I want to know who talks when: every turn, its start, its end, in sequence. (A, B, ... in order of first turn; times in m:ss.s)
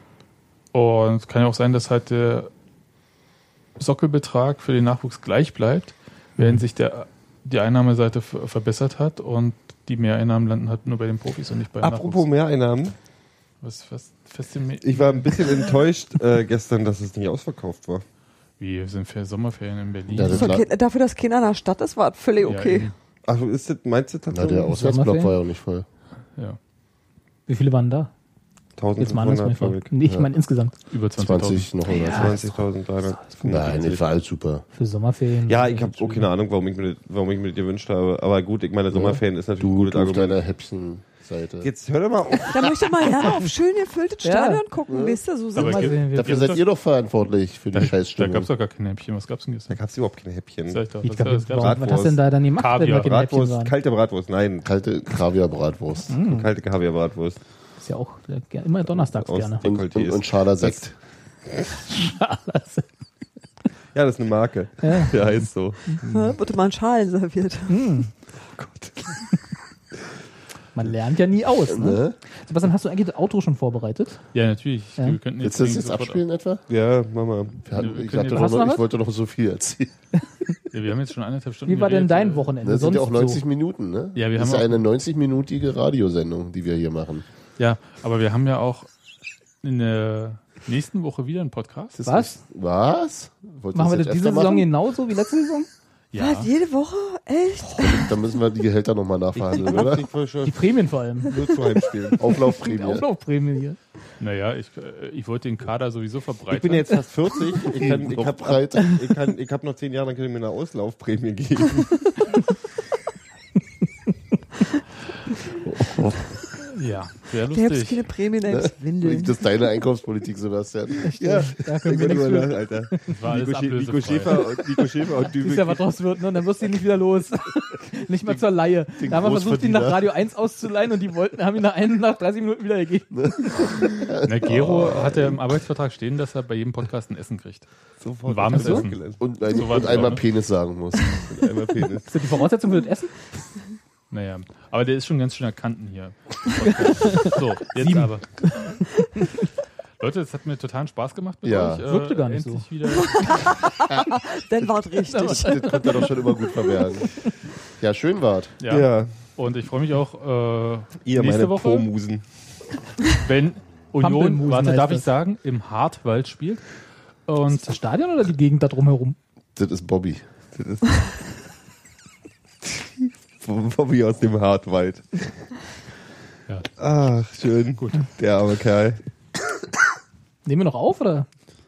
0:00.7-0:02.5 A
0:03.8-0:12.3 A
0:06.4-0:06.6 B
0:11.8-0:13.0 C
0:13.6-0:15.3 A
0:14.8-0:18.0 C
0:18.6-0:20.6 A
0:20.1-0:20.7 D
0:20.2-0:22.9 E
0:22.4-0:22.9 A
0:23.2-0:24.7 C
0:24.3-0:25.9 D
0:24.6-0:25.4 B
0:27.5-0:28.1 B
0:28.8-0:29.9 C
0:29.0-0:30.8 B
0:30.9-0:31.7 A
0:31.2-0:32.4 D
0:31.9-0:32.6 B
0:32.0-0:33.9 C
0:33.2-0:33.5 B
0:33.5-0:33.8 A
0:33.5-0:34.6 D
0:34.7-0:36.3 B
0:35.5-0:40.4 C
0:38.9-0:41.7 D
0:41.6-0:42.6 C
0:42.5-0:46.0 E
0:42.7-0:43.1 D
0:44.2-0:44.6 B
0:44.9-0:45.2 D
0:45.6-0:46.6 B
0:45.6-0:46.6 A
0:46.1-0:48.5 D
0:47.7-0:49.8 A
0:49.7-0:50.9 C
0:50.7-0:51.8 A
0:51.0-0:53.8 B
0:51.5-0:52.2 C
0:52.6-0:53.1 A
0:52.9-0:54.7 C
0:54.6-0:56.1 D
0:56.1-0:56.5 B
0:56.2-0:57.4 C
0:57.8-0:59.6 B
0:59.0-1:00.8 C
0:59.6-1:00.9 D
1:01.9-1:02.9 B
1:03.9-1:06.0 C
1:04.8-1:06.0 B
1:06.0-1:06.4 A
1:06.0-1:07.7 E
1:07.7-1:08.1 B
1:08.5-1:09.2 C
1:10.8-1:14.2 B
1:11.7-1:12.2 D
1:14.3-1:16.2 A
1:15.4-1:16.6 D
1:16.7-1:17.6 C
1:17.6-1:19.9 D
1:17.7-1:18.7 A
1:18.3-1:18.8 B
1:20.7-1:22.5 A
1:21.7-1:23.4 B
1:22.6-1:27.3 D
1:24.2-1:24.8 A
1:27.6-1:28.9 A
1:29.6-1:32.0 A
1:32.0-1:34.7 D
1:32.0-1:32.4 B
1:33.7-1:35.7 B
1:36.1-1:36.5 A
1:36.2-1:38.1 E
1:37.8-1:40.1 D
1:39.3-1:40.7 C
1:40.4-1:41.5 B
1:41.3-1:42.3 C
1:42.1-1:43.8 B
1:42.2-1:43.1 D
1:44.2-1:47.0 A
1:46.5-1:52.4 C
1:47.7-1:49.0 D
1:55.6-1:56.2 D
1:56.6-1:58.1 A
1:57.5-1:59.6 E
1:58.5-2:01.6 D
2:01.0-2:03.2 B
2:01.2-2:05.9 C
2:03.1-2:04.6 A
2:05.2-2:13.8 B
2:09.0-2:10.1 D
2:13.1-2:15.4 D
2:14.3-2:17.7 A
2:18.0-2:20.2 C
2:18.2-2:20.2 A
2:18.5-2:18.9 B
2:19.2-2:21.3 D
2:21.1-2:22.1 C
2:22.1-2:23.2 B
2:24.1-2:28.5 A
2:26.9-2:28.8 B
2:30.0-2:33.5 A
2:31.4-2:31.8 D
2:31.8-2:33.0 B
2:32.9-2:35.8 E
2:33.9-2:37.2 D
2:35.0-2:37.3 B
2:37.8-2:38.6 D
2:38.6-2:41.9 A
2:38.7-2:39.1 C
2:41.0-2:42.2 C
2:43.1-2:46.7 A
2:44.0-2:45.1 B
2:47.3-2:47.7 A
2:47.5-2:49.2 B
2:49.6-2:50.3 D
2:50.6-2:51.2 C
2:52.7-2:55.5 C
2:56.8-2:59.0 C
3:00.5-3:01.3 B